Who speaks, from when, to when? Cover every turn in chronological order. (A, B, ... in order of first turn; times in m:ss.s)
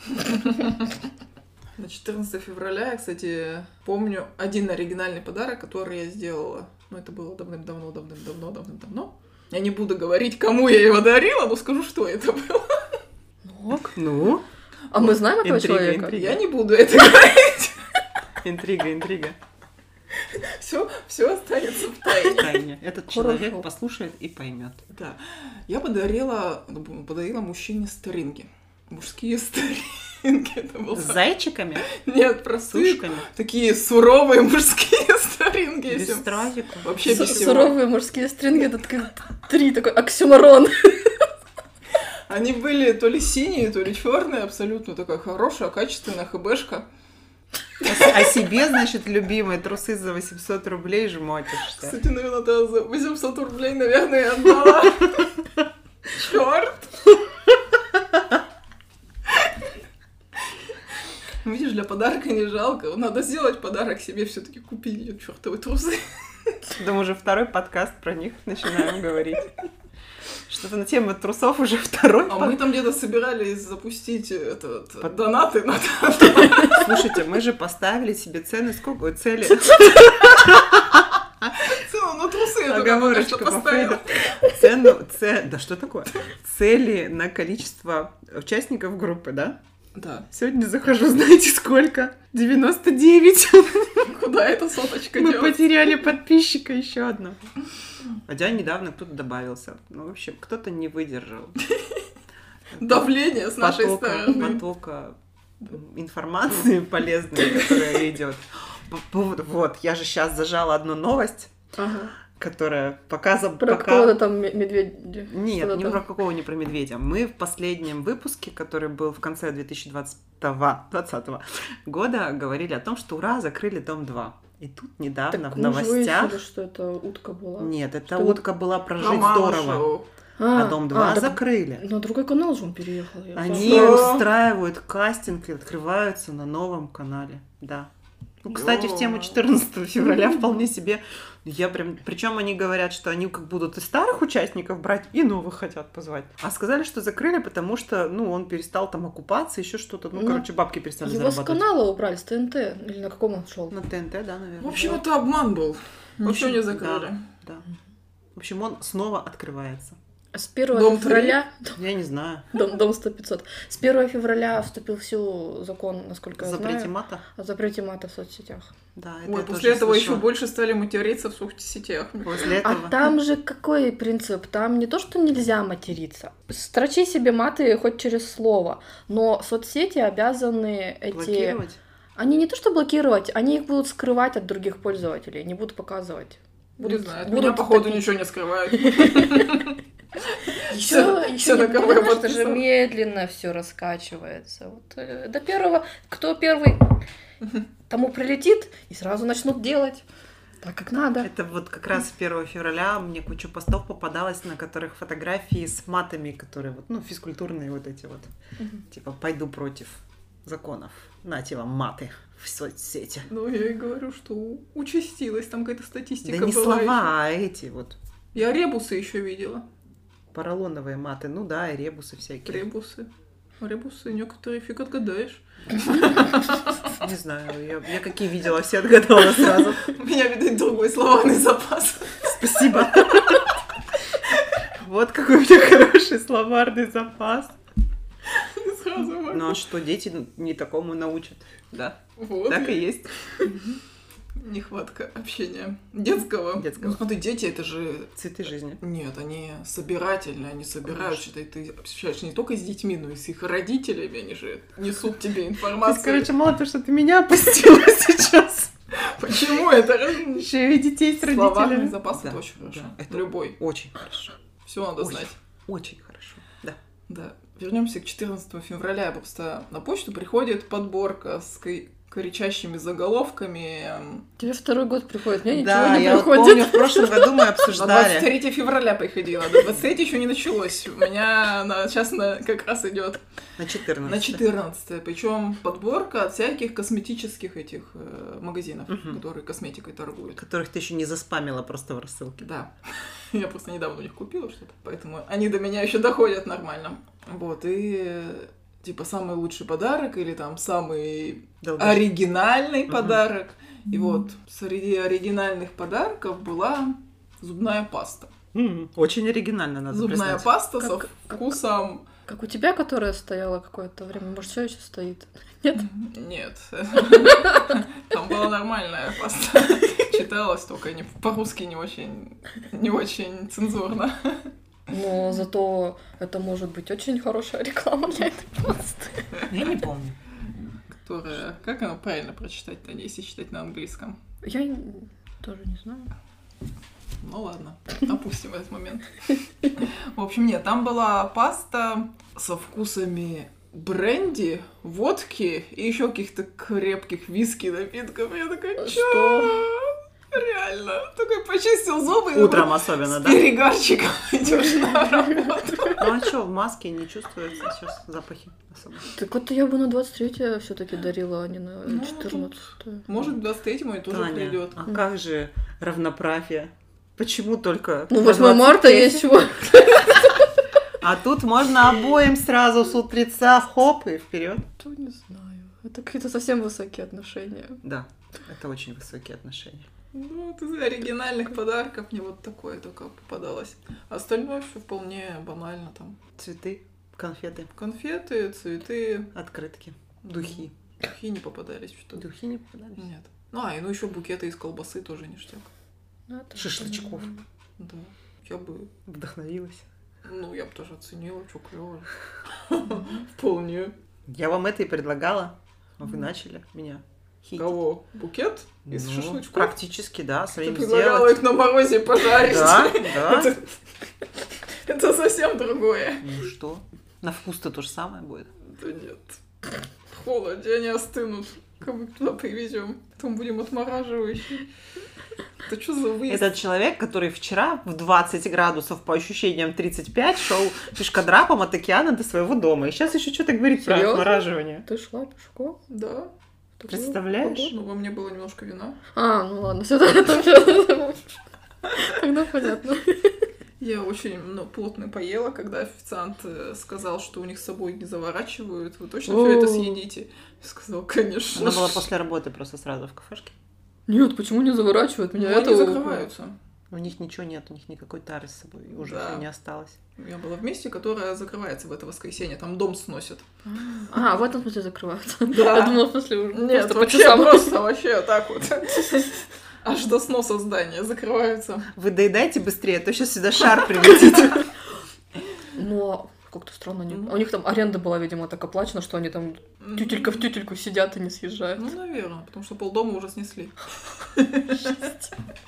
0:00.2-0:00.9 A
0:01.8-0:12.9 A
0:13.4-0:14.0 B
0:13.9-0:16.4 C
0:14.9-0:16.2 B
0:16.1-0:17.8 A
0:18.4-0:19.4 C
0:20.2-0:22.5 A
0:22.3-0:24.8 C
0:23.1-0:23.7 B
0:24.9-0:31.2 A
0:30.9-0:31.9 C
0:31.8-0:37.8 A
0:32.7-0:33.3 C
0:35.9-0:37.7 C
0:37.0-0:41.3 B
0:42.3-0:46.9 A
0:47.8-0:52.0 C
0:51.7-0:55.4 A
0:56.1-0:57.2 A
1:01.4-1:06.6 A
1:06.7-1:09.5 C
1:10.5-1:12.6 C
1:12.3-1:17.0 A
1:16.7-1:21.6 C
1:21.6-1:24.5 A
1:22.6-1:29.6 C
1:30.0-1:30.3 A
1:30.3-1:34.1 C
1:34.0-1:35.7 A
1:35.1-1:37.4 C
1:38.3-1:41.6 C
1:41.6-1:42.0 A
1:42.8-1:51.5 C
1:42.8-1:44.6 A
1:51.8-1:52.1 B
1:52.4-1:54.2 C
1:53.6-1:56.0 B
1:55.3-2:06.4 C
2:05.3-2:08.4 B
2:07.6-2:09.9 C
2:09.0-2:10.1 A
2:10.4-2:14.2 B
2:10.5-2:11.8 C
2:13.4-2:17.9 C
2:13.5-2:14.3 A
2:18.4-2:31.7 C
2:18.5-2:19.4 A
2:30.2-2:30.5 B
2:31.0-2:33.8 B
2:33.7-2:35.0 C
2:34.6-2:37.2 A
2:36.2-2:37.7 C
2:38.4-2:40.0 C
2:40.3-2:41.8 B
2:40.7-2:41.4 A
2:41.8-2:42.4 C
2:42.5-2:48.7 B
2:46.4-2:47.2 C
2:49.0-2:50.3 C
2:49.2-2:52.6 A
2:52.2-2:53.1 C
2:52.6-3:01.6 B
3:01.1-3:01.8 C
3:02.2-3:08.1 B
3:06.8-3:09.8 A
3:08.8-3:09.5 B
3:10.3-3:12.6 A
3:10.7-3:17.0 B
3:17.9-3:20.0 B
3:20.6-3:21.3 B
3:21.2-3:28.3 C
3:28.9-3:33.3 C
3:33.3-3:37.1 A
3:36.2-3:38.0 C
3:38.3-3:39.7 A
3:40.3-3:42.7 C
3:42.5-3:43.1 A
3:43.6-3:46.8 A
3:46.9-3:49.9 C
3:49.8-3:53.3 A
3:52.2-3:53.5 C
3:54.7-3:57.6 C
3:58.3-3:59.7 A
3:59.3-4:03.1 C
4:02.2-4:03.6 A
4:04.4-4:08.2 A
4:06.6-4:07.0 C
4:08.2-4:08.8 C
4:08.8-4:16.3 A
4:10.9-4:11.2 C
4:15.8-4:18.7 C
4:18.9-4:20.5 A
4:20.4-4:24.3 C
4:21.2-4:23.6 A
4:24.7-4:25.4 A
4:25.0-4:26.8 C
4:27.1-4:34.3 A
4:34.4-4:37.6 B
4:35.5-4:38.3 C
4:37.7-4:43.2 A
4:43.6-4:44.4 C
4:44.0-4:50.4 A
4:48.9-4:49.2 C
4:50.4-4:52.4 C
4:52.4-5:08.3 A
5:01.6-5:02.1 C
5:02.9-5:03.2 C
5:08.5-5:10.5 C
5:09.9-5:12.1 A
5:10.8-5:11.5 B
5:12.3-5:15.8 B
5:15.8-5:24.5 A
5:24.9-5:29.2 B
5:29.5-5:30.2 C
5:31.0-5:34.2 A
5:34.4-5:36.1 B
5:37.2-5:56.0 A
5:48.8-5:49.6 B
5:52.3-5:53.5 C
5:56.0-5:59.1 C
5:59.1-6:03.0 B
6:01.9-6:04.8 A
6:04.1-6:09.4 C
6:08.1-6:10.4 B
6:11.0-6:14.7 C
6:14.8-6:17.8 B
6:17.8-6:19.9 C
6:20.1-6:26.2 A
6:26.4-6:27.7 C
6:27.8-6:29.3 A
6:29.3-6:30.7 C
6:30.2-6:32.3 A
6:32.2-6:33.1 C
6:33.0-6:35.7 A
6:36.3-6:37.4 B
6:36.6-6:37.4 C
6:37.8-6:38.9 A
6:39.1-6:39.9 C
6:40.2-6:43.9 A
6:44.3-6:47.8 C
6:47.6-6:49.8 A
6:48.9-6:51.4 C
6:50.6-6:53.7 A
6:52.3-6:53.6 C
6:54.9-6:56.3 A
6:56.2-6:58.5 C
6:58.6-6:59.4 A
7:00.1-7:04.7 A
7:05.7-7:06.6 A
7:06.3-7:14.9 C
7:13.8-7:15.8 B
7:15.9-7:16.3 A
7:16.8-7:17.7 B
7:16.9-7:17.7 C
7:17.5-7:19.0 A
7:19.2-7:23.4 B
7:23.8-7:32.1 A
7:29.3-7:30.0 B
7:31.5-7:33.6 C
7:34.1-7:36.3 B
7:35.4-7:36.6 A
7:36.9-7:40.0 C
7:39.0-7:39.4 A
7:40.2-7:44.1 A
7:44.1-7:47.8 B
7:45.5-7:51.9 A
7:51.9-7:54.7 C
7:55.8-8:01.9 B
7:59.8-8:00.5 A
8:01.8-8:05.1 A
8:04.8-8:05.1 B